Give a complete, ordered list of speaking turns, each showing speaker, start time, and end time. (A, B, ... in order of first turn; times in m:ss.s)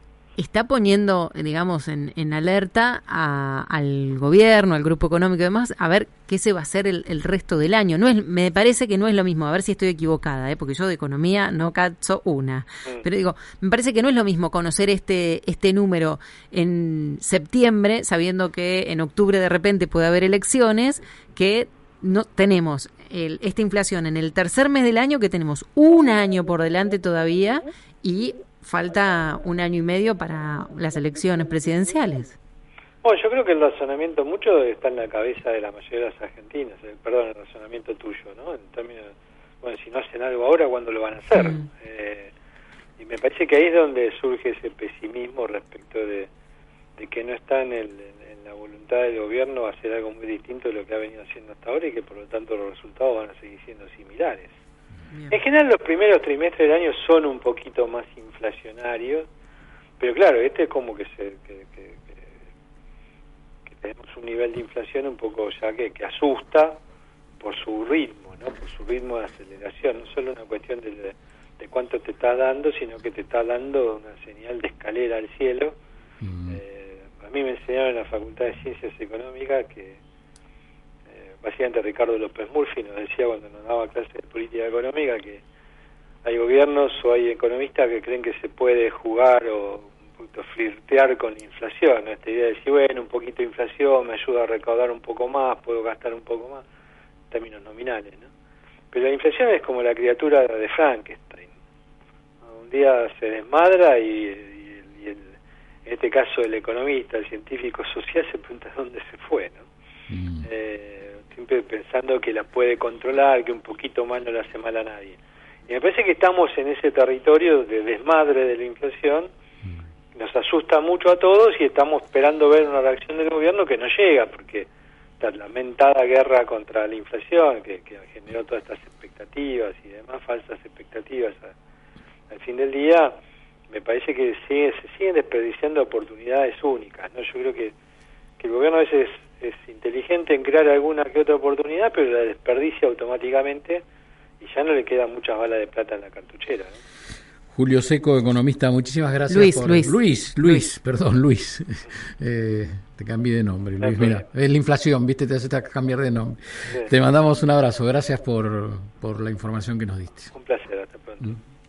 0:00.4-0:32.4 A
0:33.0-0:42.3 B
0:41.4-0:41.6 A
0:43.0-0:46.3 B
0:47.0-0:54.5 B
0:55.1-0:55.4 A
0:55.3-0:59.3 B
1:00.0-1:02.3 B
1:03.7-1:06.8 B
1:07.4-1:15.8 B
1:16.2-1:16.6 C
1:16.5-1:20.0 B
1:21.2-1:25.4 B
1:26.2-1:36.6 B
1:37.3-1:38.3 B
1:38.9-1:41.5 B
1:42.5-1:45.3 B
1:45.8-1:49.6 B
1:50.1-1:50.5 C
1:50.4-1:59.3 B
2:00.2-2:04.7 B
2:05.2-2:11.5 B
2:12.3-2:13.2 B
2:13.7-2:17.7 B
2:18.4-2:23.8 B
2:24.4-2:26.8 B
2:27.5-2:40.3 C
2:29.3-2:30.7 A
2:33.8-2:34.2 B
2:40.3-2:41.4 B